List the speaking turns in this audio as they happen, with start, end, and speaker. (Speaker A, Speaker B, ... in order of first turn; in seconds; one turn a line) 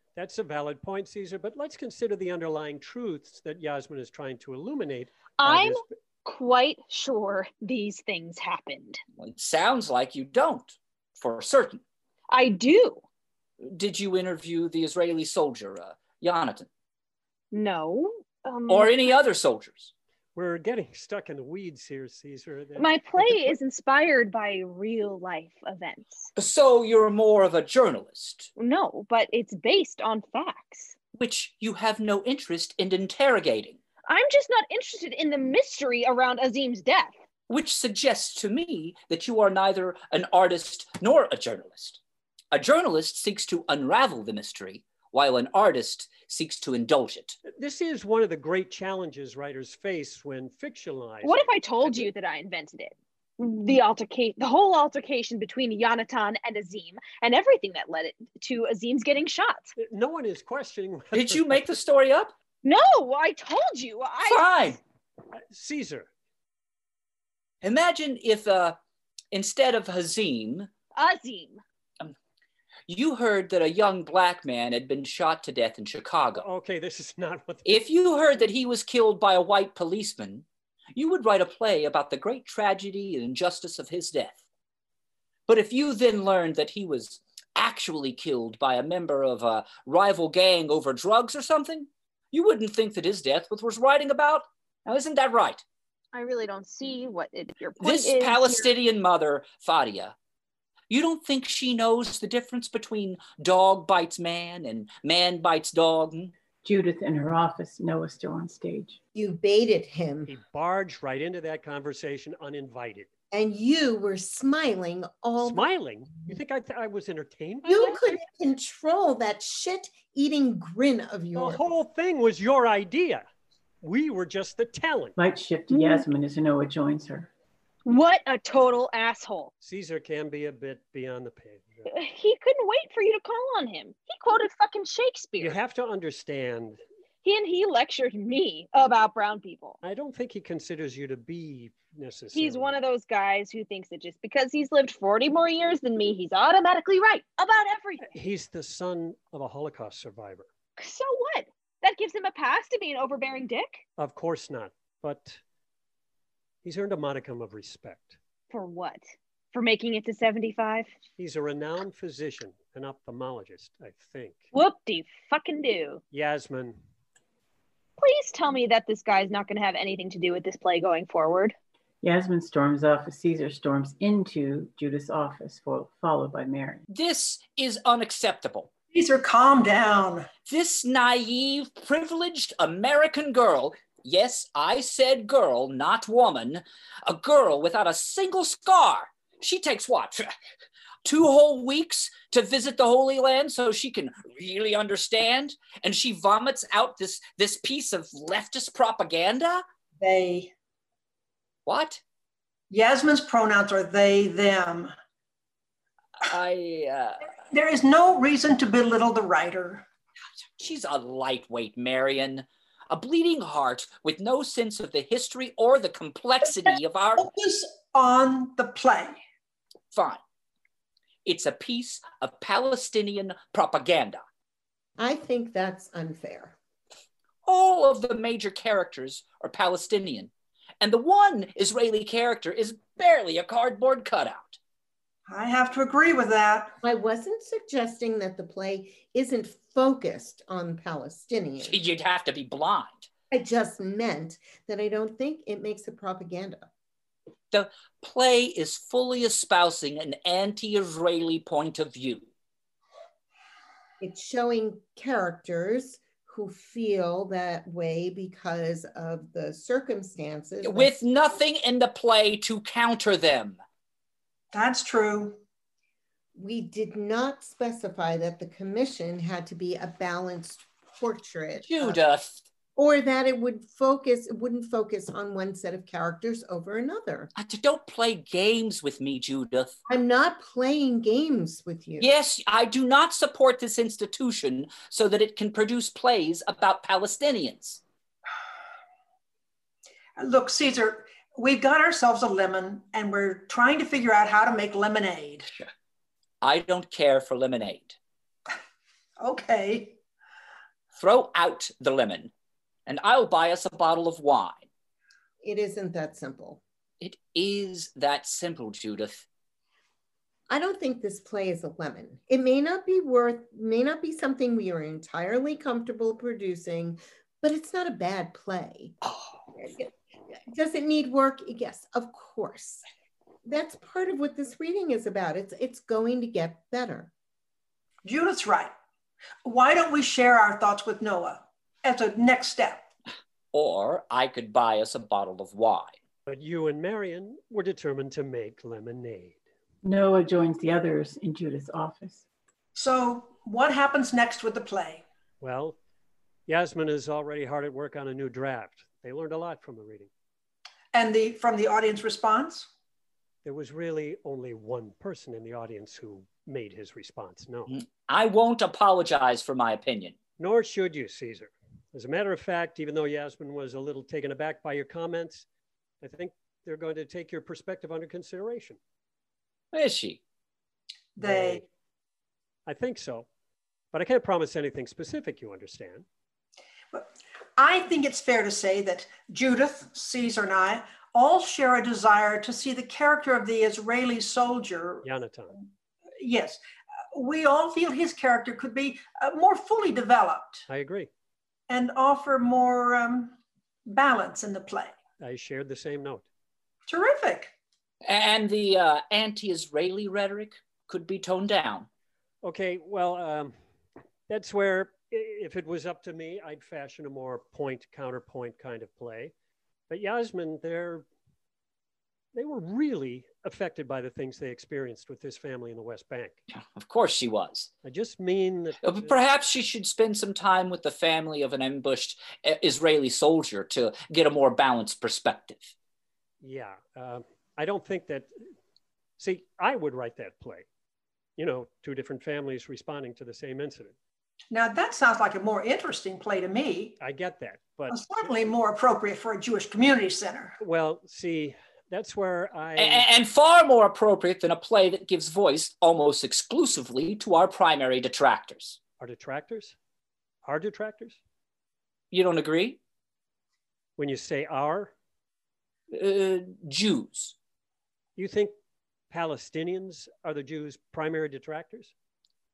Speaker A: 0.2-5.8
Speaker B: 5.4-9.0
Speaker C: 9.2-11.8
Speaker B: 12.3-13.0
Speaker C: 13.7-16.7
Speaker B: 17.5-19.1
Speaker C: 18.7-19.9
Speaker A: 20.4-23.6
Speaker B: 22.8-26.3
Speaker C: 26.4-28.5
Speaker B: 28.6-30.9
Speaker C: 31.1-33.8
Speaker B: 34.1-37.1
Speaker C: 37.5-42.0
Speaker C: 42.5-47.4
Speaker A: 47.5-52.1
Speaker B: 51.2-59.7
Speaker A: 59.8-61.7
Speaker C: 61.1-62.3
Speaker B: 62.6-64.8
Speaker C: 64.2-64.8
Speaker A: 65.5-66.1
Speaker C: 67.6-68.8
Speaker C: 69.3-70.7
Speaker B: 71.0-71.6
Speaker C: 72.9-76.5
Speaker A: 76.4-77.8
Speaker C: 77.7-84.4
Speaker C: 85.5-95.6
Speaker B: 96.1-98.7
Speaker C: 97.8-100.1
Speaker C: 100.9-106.3
Speaker D: 106.6-109.0
Speaker E: 109.1-110.3
Speaker A: 110.3-113.1
Speaker E: 113.3-115.6
Speaker A: 115.4-118.0
Speaker E: 117.6-121.6
Speaker A: 121.3-123.2
Speaker A: 123.8-125.2
Speaker D: 125.2-127.3
Speaker B: 125.7-126.0
Speaker B: 127.8-129.5
Speaker A: 129.6-131.9
Speaker B: 131.9-135.6
Speaker A: 135.4-136.8
Speaker B: 137.2-139.8
Speaker A: 139.8-142.8
Speaker B: 142.3-148.1
Speaker A: 148.1-150.5
Speaker B: 150.8-153.8
Speaker A: 154.0-155.4
Speaker A: 156.6-158.2
Speaker B: 158.5-160.9
Speaker A: 161.2-164.4
Speaker B: 164.5-166.0
Speaker A: 166.1-166.8
Speaker B: 168.0-171.6
Speaker D: 172.0-176.8
Speaker C: 176.9-178.7
Speaker F: 178.9-180.3
Speaker C: 180.5-190.3
Speaker C: 191.1-199.6
Speaker F: 200.0-200.5
Speaker C: 201.7-202.0
Speaker F: 202.7-204.9
Speaker C: 206.3-207.3
Speaker F: 207.5-209.8
Speaker C: 210.6-217.3
Speaker F: 217.2-219.2
Speaker C: 219.9-220.2
Speaker C: 221.2-224.2
Speaker E: 225.0-226.6
Speaker C: 227.4-234.6
Speaker F: 235.3-236.8
Speaker E: 236.8-241.8
Speaker C: 241.6-243.1
Speaker E: 243.3-246.7
Speaker C: 247.5-252.3
Speaker E: 254.0-260.9
Speaker C: 260.6-263.6
Speaker F: 264.5-265.4
Speaker E: 266.4-272.0
Speaker C: 271.6-272.4
Speaker E: 272.8-277.3
Speaker C: 277.4-279.8
Speaker E: 279.9-282.1
Speaker C: 282.0-287.8
Speaker F: 290.2-295.5
Speaker C: 296.4-298.0
Speaker F: 299.2-300.0
Speaker C: 300.9-302.3
Speaker C: 302.9-304.6
Speaker E: 305.4-306.6
Speaker C: 307.0-309.2
Speaker E: 310.5-319.0
Speaker E: 319.6-319.9
Speaker E: 320.4-322.9
Speaker E: 323.4-327.1
Speaker F: 328.0-328.7
Speaker F: 329.4-332.9
Speaker C: 333.5-335.9
Speaker A: 336.3-339.4
Speaker D: 339.8-342.2
Speaker F: 342.7-345.0
Speaker A: 345.4-345.8
Speaker A: 346.5-350.1
Speaker F: 350.9-352.7
Speaker A: 353.4-357.7
Speaker C: 357.7-360.2
Speaker A: 360.4-365.4
Speaker A: 366.0-368.8
Speaker C: 369.7-370.2
Speaker F: 371.2-371.6
Speaker A: 371.2-371.6
Speaker A: 372.7-373.3
Speaker A: 373.9-376.1
Speaker F: 376.9-385.1
Speaker A: 385.0-385.6
Speaker F: 386.2-386.6
Speaker F: 387.1-390.7
Speaker A: 390.7-391.1
Speaker F: 391.7-393.4
Speaker F: 393.9-394.9
Speaker A: 395.2-396.2
Speaker F: 396.9-397.5
Speaker C: 398.1-401.9
Speaker A: 402.4-403.5
Speaker A: 404.3-409.3
Speaker A: 409.9-411.1
Speaker A: 412.3-416.4
Speaker C: 416.7-417.7
Speaker A: 417.8-419.2
Speaker C: 418.8-425.7
Speaker A: 426.4-428.3
Speaker A: 429.2-430.7
Speaker A: 431.4-433.9
Speaker F: 434.5-437.0
Speaker A: 437.0-438.3
Speaker F: 437.9-440.6
Speaker A: 440.6-443.1
Speaker C: 442.8-448.8
Speaker A: 449.0-449.8
Speaker A: 450.4-451.2
Speaker C: 452.1-452.8
Speaker A: 454.0-454.9
Speaker C: 455.9-457.4
Speaker A: 458.2-458.5
Speaker A: 459.1-461.9